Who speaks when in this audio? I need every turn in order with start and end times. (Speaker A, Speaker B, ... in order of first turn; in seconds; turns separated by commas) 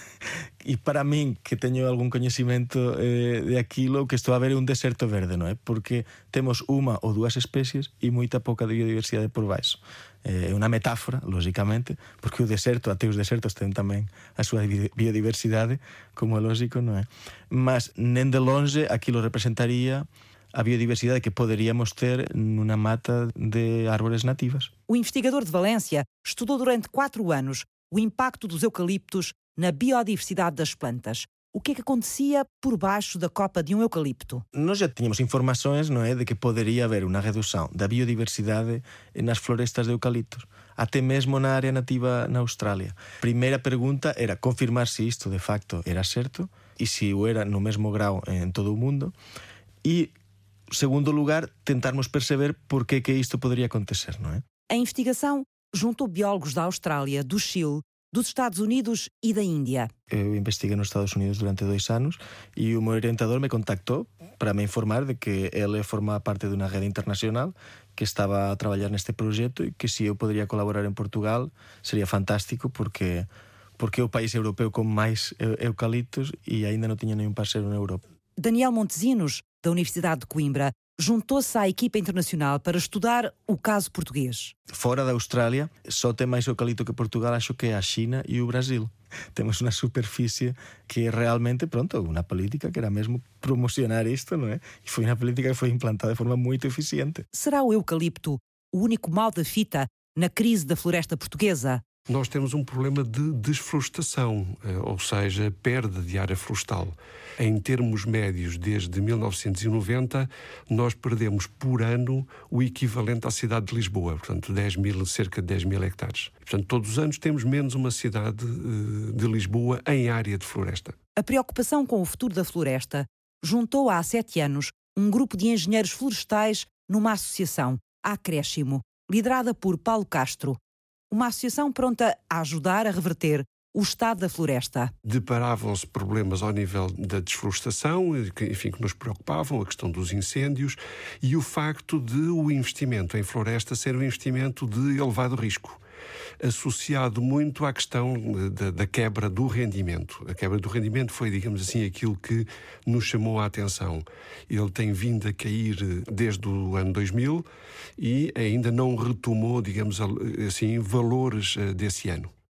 Speaker A: 0.6-24.7, Speaker B: 24.9-34.4, Speaker A: 34.5-49.1, Speaker A: 49.8-50.1, Speaker A: 50.7-54.4, Speaker B: 54.7-59.9, Speaker A: 60.1-78.0, Speaker B: 78.4-84.5, Speaker A: 84.7-97.2, Speaker B: 97.3-101.8, Speaker C: 102.1-121.0, Speaker B: 121.2-130.6, Speaker B: 131.1-134.9, Speaker C: 135.0-145.8, Speaker C: 146.4-157.5, Speaker C: 158.0-162.3